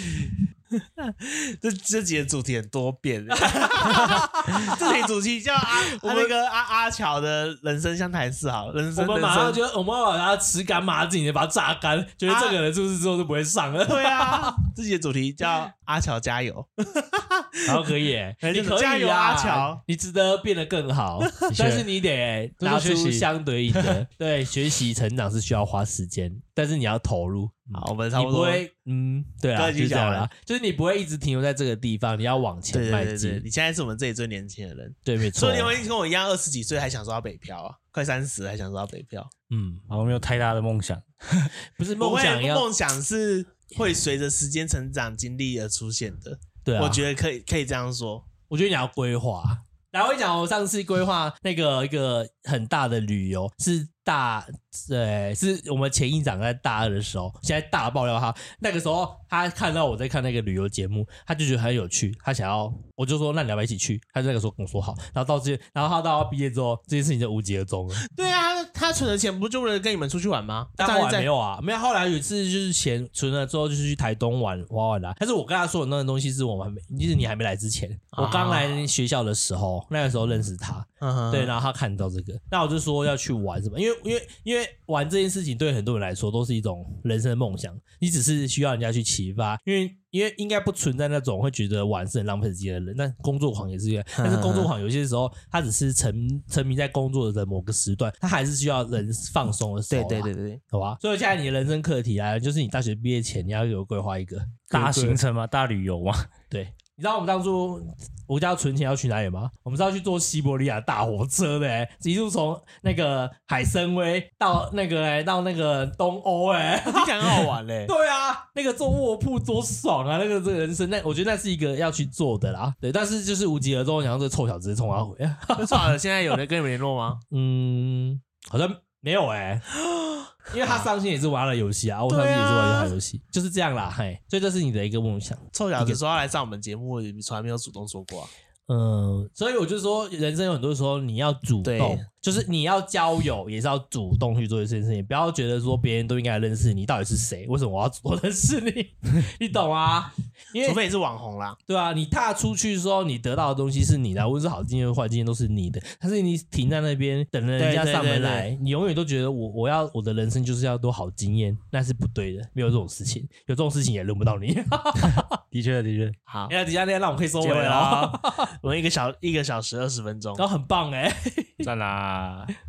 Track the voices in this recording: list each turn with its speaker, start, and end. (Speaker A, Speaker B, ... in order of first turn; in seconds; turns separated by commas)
Speaker A: 0.7-9.6, Speaker B: 3.5-5.0, Speaker B: 6.0-6.3, Speaker B: 8.9-14.6, Speaker A: 12.3-12.6, Speaker A: 13.8-17.8, Speaker B: 17.6-33.4, Speaker A: 18.4-19.8, Speaker A: 21.2-21.8, Speaker C: 22.6-24.0, Speaker A: 27.7-28.6, Speaker A: 29.5-30.3, Speaker A: 32.7-39.3, Speaker B: 35.0-35.8, Speaker B: 39.5-39.8, Speaker C: 39.9-41.5, Speaker B: 41.8-42.7, Speaker A: 42.0-48.3, Speaker B: 46.6-47.0, Speaker B: 48.5-68.1, Speaker A: 68.0-71.3, Speaker B: 70.8-105.2, Speaker A: 78.1-78.8, Speaker A: 81.0-81.5, Speaker A: 94.2-94.7, Speaker A: 99.9-100.6, Speaker C: 104.7-106.3, Speaker B: 106.5-125.9, Speaker A: 116.8-117.9, Speaker A: 125.6-127.2, Speaker B: 127.3-129.7, Speaker A: 129.8-130.9, Speaker B: 130.5-136.0, Speaker A: 132.1-132.9, Speaker A: 135.5-138.3, Speaker B: 138.7-150.8, Speaker A: 141.6-142.0, Speaker A: 150.6-151.6, Speaker B: 151.7-165.3, Speaker A: 157.6-158.5, Speaker C: 165.0-166.2, Speaker A: 166.3-166.5, Speaker B: 166.5-168.5, Speaker C: 167.4-168.1, Speaker A: 168.5-170.4, Speaker B: 170.3-171.7, Speaker C: 171.6-172.5